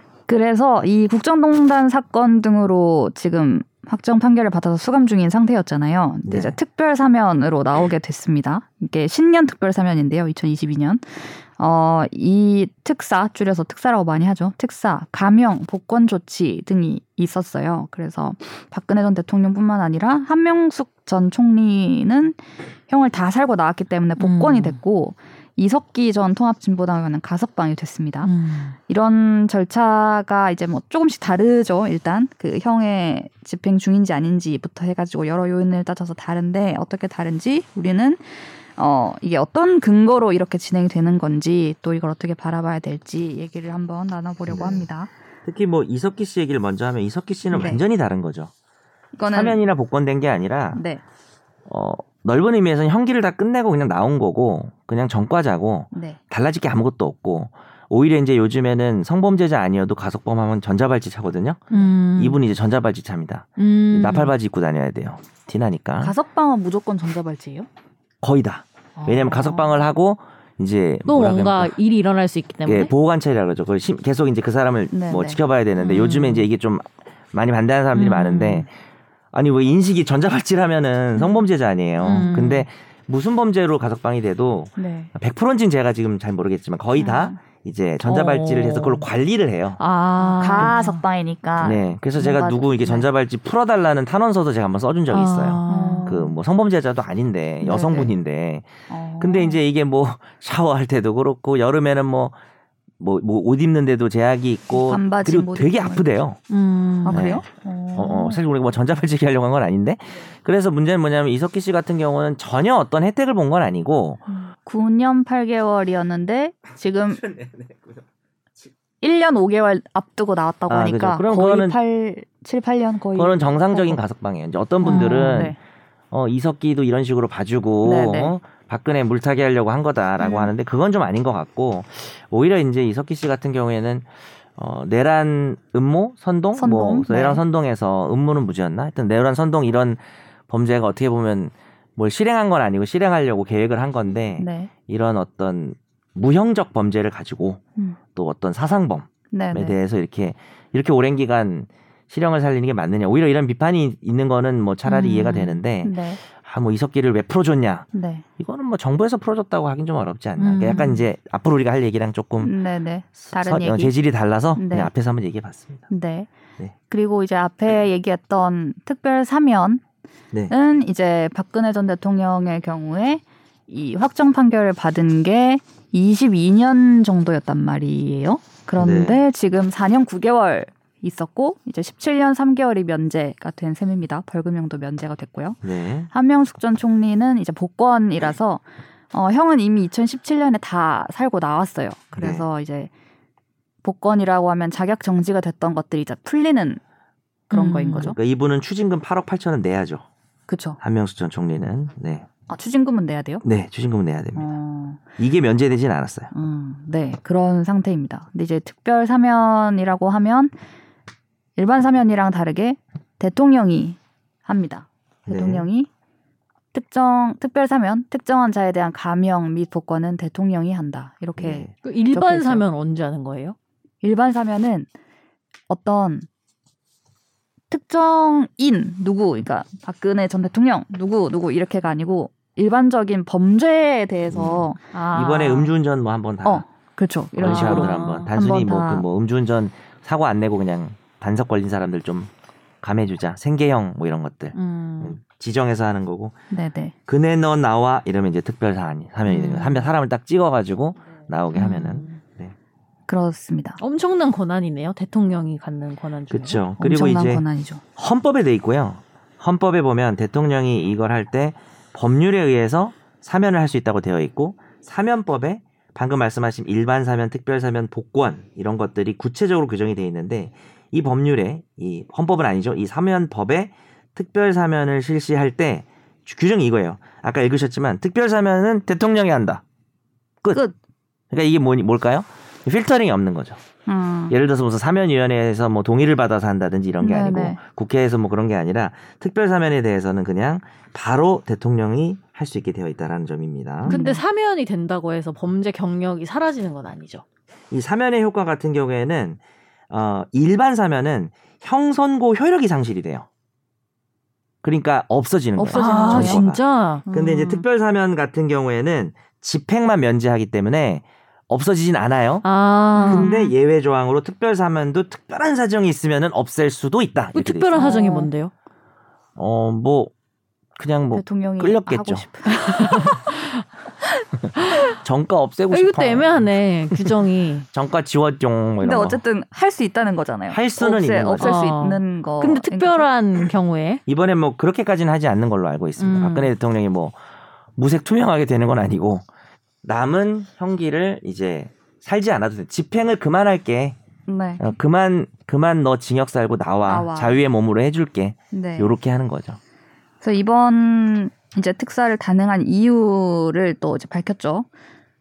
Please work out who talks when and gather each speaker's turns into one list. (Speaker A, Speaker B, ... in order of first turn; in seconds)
Speaker A: 0.3-28.3, 28.9-45.1, 47.5-47.8, 49.2-49.6, 50.7-51.0, 55.9-56.2, 66.0-67.7, 69.0-69.8, 74.9-75.4, 84.8-85.1, 87.0-87.4, 90.2-93.1, 95.7-96.3, 97.6-98.1, 98.9-99.6, 104.7-106.0, 107.0-108.4, 114.3-117.2, 119.0-124.0, 124.8-125.6, 127.8-128.3, 130.2-130.5, 136.6-137.4, 144.4-144.7, 149.3-149.8, 155.8-156.2, 157.9-158.2, 162.4-163.9, 164.6-164.9, 165.9-166.3, 166.9-169.8, 170.5-185.6, 186.1-192.9, 193.8-196.8, 197.5-198.2, 200.5-200.8, 202.5-203.4, 204.4-205.0, 206.3-210.6, 211.6-215.9, 216.7-222.6, 224.0-224.9, 225.7-226.3, 227.7-234.8, 236.4-239.1, 246.5-246.9, 253.1-253.8, 256.8-257.8, 283.9-284.4, 287.0-287.6, 293.9-294.2, 305.7-306.4, 307.1-307.6, 312.9-313.5, 317.8-318.3, 321.1-323.2, 328.8-333.1, 344.3-344.6, 346.9-347.4, 348.5-348.9, 350.2-354.7
Speaker B: 6.3-6.6, 44.5-44.9, 45.5-48.5, 49.3-50.8, 51.7-66.1, 68.2-71.8, 72.7-78.7, 79.3-89.8, 91.6-102.3, 103.0-106.4, 107.1-114.2, 117.1-118.0, 120.7-121.8, 123.2-125.6, 126.1-147.6, 148.1-162.5, 163.2-165.9, 178.8-179.2, 185.6-186.1, 192.2-192.4, 197.9-200.0, 200.8-202.3, 203.4-204.5, 205.2-206.3, 215.3-215.7, 221.4-221.7, 234.3-236.6, 237.3-242.3, 242.8-246.4, 247.1-252.5, 256.3-257.4, 258.0-279.6, 281.3-283.6, 284.3-294.0, 297.7-303.3, 304.6-312.5, 313.1-318.0, 319.4-320.1, 320.8-322.3, 325.0-326.5, 327.7-329.2, 330.5-331.6, 334.1-337.2, 337.8-339.2, 339.8-344.0, 344.6-349.6
Speaker C: 24.2-24.8, 28.2-28.8, 61.7-62.4, 63.6-64.3, 71.1-72.9, 75.8-76.5, 78.0-78.7, 82.0-82.7, 88.0-89.1, 89.8-91.0, 95.1-96.2, 106.5-107.3, 124.8-125.4, 154.8-155.6, 160.4-161.1, 197.5-198.1, 221.8-223.6, 234.9-235.7, 237.4-238.3, 244.5-245.2, 249.3-249.9, 251.5-252.2, 253.8-256.6, 293.9-297.2, 305.6-307.0, 312.4-313.3, 317.3-318.5, 322.5-323.6, 324.6-324.9, 325.7-327.7, 331.4-334.0, 336.0-336.5